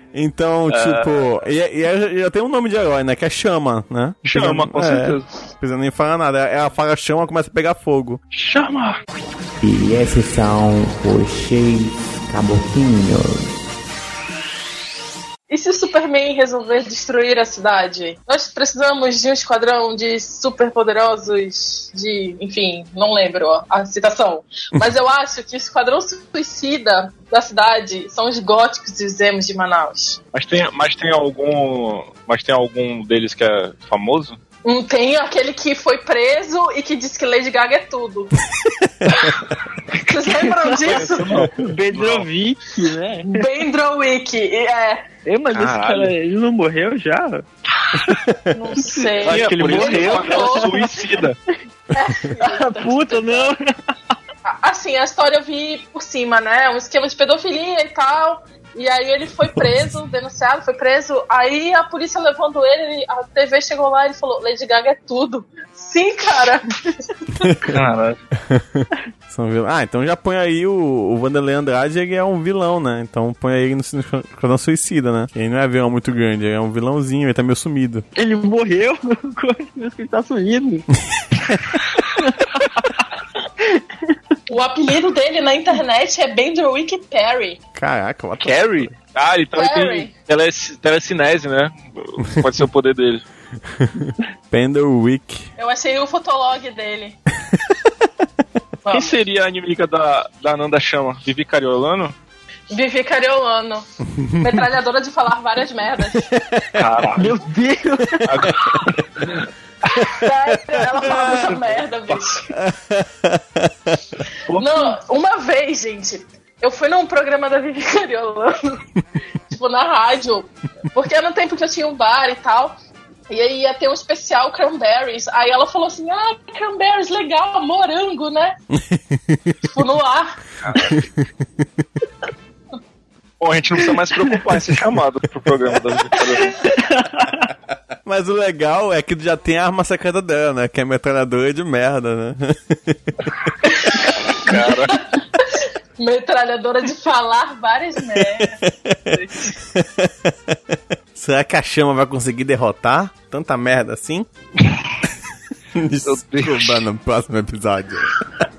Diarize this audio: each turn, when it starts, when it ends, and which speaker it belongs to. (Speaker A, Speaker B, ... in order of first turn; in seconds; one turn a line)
Speaker A: 0.1-8.2
Speaker B: 0.7-1.3
Speaker B: 4.2-5.3
Speaker B: 8.3-9.0
Speaker C: 9.6-13.5
Speaker D: 15.5-30.2
Speaker B: 30.3-34.4
Speaker D: 34.6-38.4
Speaker E: 39.9-43.4
Speaker D: 40.0-41.5
Speaker B: 40.8-42.3
Speaker D: 43.3-45.0
Speaker E: 45.2-47.5
Speaker B: 45.5-46.1
Speaker D: 48.5-50.7
Speaker E: 48.7-51.2
Speaker B: 49.2-51.4
Speaker D: 51.9-53.5
Speaker E: 52.4-53.6
Speaker D: 54.5-66.8
Speaker A: 67.5-67.7
Speaker B: 67.6-68.2
Speaker A: 68.5-78.0
Speaker E: 78.2-80.9
Speaker E: 81.5-83.0
Speaker E: 83.6-84.2
Speaker D: 84.5-87.6
Speaker A: 87.8-88.9
Speaker B: 88.4-93.2
Speaker D: 89.5-90.1
Speaker A: 93.8-95.5
Speaker D: 95.6-97.2
Speaker D: 98.8-99.1
Speaker B: 98.9-102.2
Speaker D: 102.7-106.3
Speaker A: 104.2-104.6
Speaker A: 106.4-106.8
Speaker B: 106.8-107.4
Speaker E: 107.2-108.8
Speaker B: 108.2-109.5
Speaker D: 109.9-112.5
Speaker B: 111.1-112.2
Speaker A: 112.5-114.0
Speaker B: 114.5-114.9
Speaker D: 114.5-118.8
Speaker D: 119.5-122.8
Speaker D: 123.3-128.6
Speaker A: 128.9-129.4
Speaker D: 129.7-130.4
Speaker B: 130.7-131.0
Speaker B: 133.4-136.6
Speaker E: 136.4-137.5
Speaker A: 138.1-143.0
Speaker D: 143.7-149.5
Speaker B: 143.9-145.0
Speaker A: 148.4-149.0
Speaker A: 149.8-150.6
Speaker A: 151.2-154.3
Speaker A: 155.8-158.1
Speaker B: 156.0-156.8